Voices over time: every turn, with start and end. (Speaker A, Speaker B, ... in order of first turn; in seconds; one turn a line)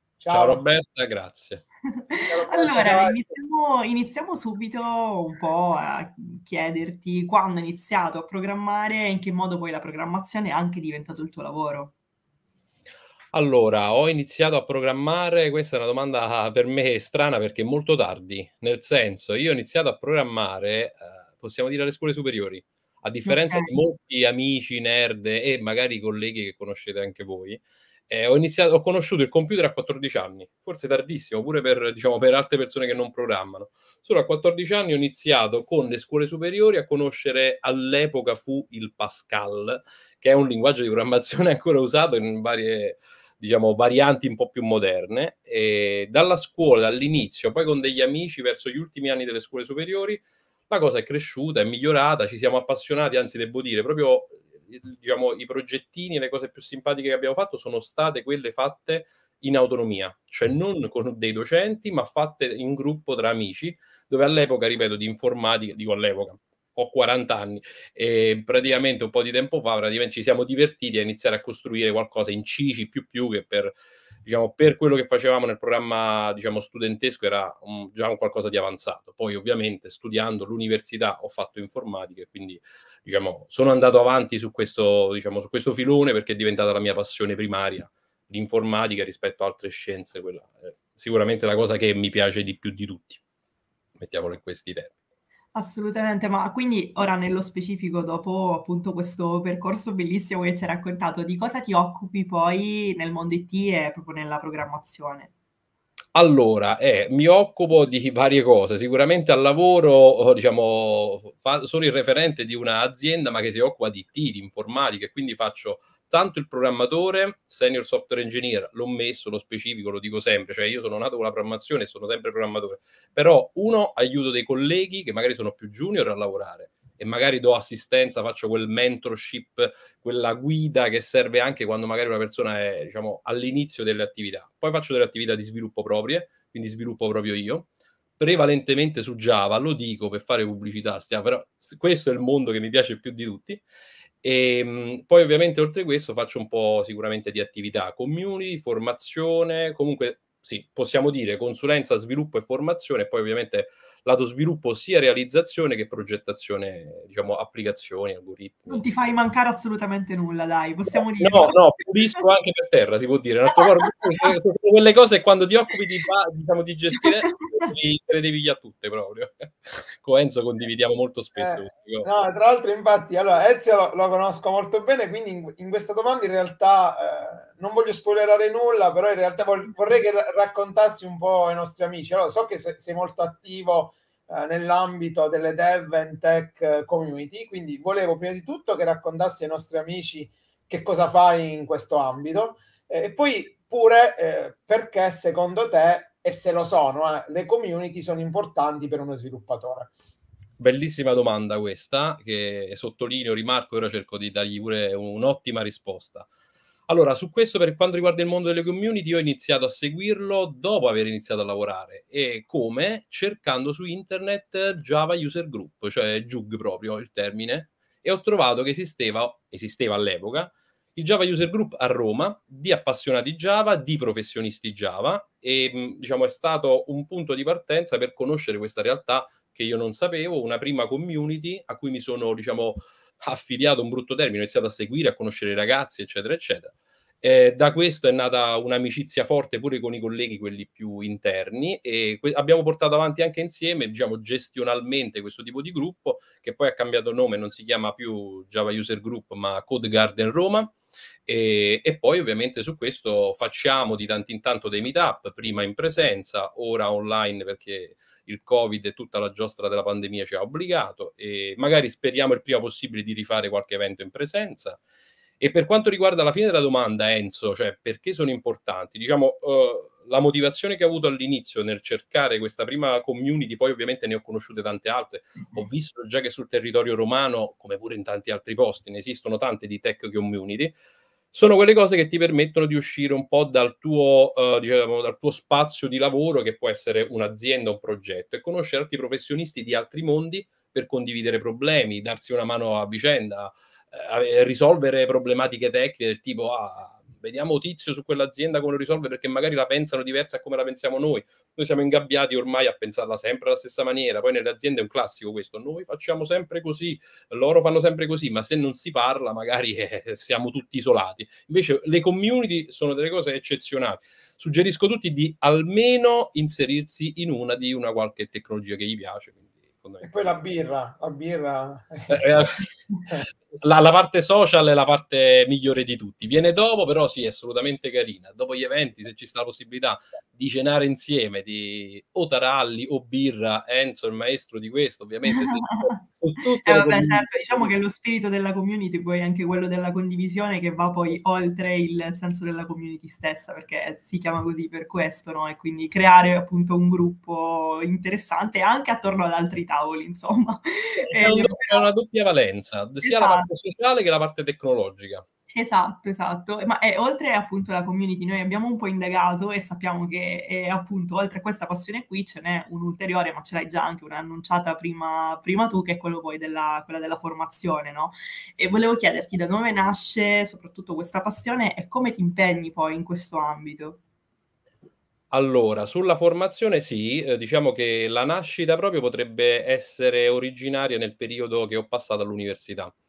Speaker A: 0.2-0.6
Speaker B: 0.3-1.6
Speaker C: 2.1-11.9
Speaker A: 2.3-3.3
Speaker B: 13.3-93.2
Speaker C: 23.3-23.7
Speaker B: 94.0-94.9
Speaker C: 95.5-105.3
Speaker B: 106.2-143.6
Speaker B: 144.2-158.8
Speaker C: 158.7-161.8
Speaker B: 160.9-172.1
Speaker A: 171.3-200.1
Speaker B: 200.6-206.3
Speaker B: 206.9-264.8
Speaker B: 265.4-280.8
Speaker B: 281.3-320.4
Speaker A: 320.0-322.3
Speaker B: 322.1-337.7
Speaker C: 335.4-335.9
Speaker C: 336.6-351.9
Speaker B: 351.1-355.2
Speaker C: 353.0-353.5
Speaker C: 355.5-374.0
Speaker B: 375.3-382.9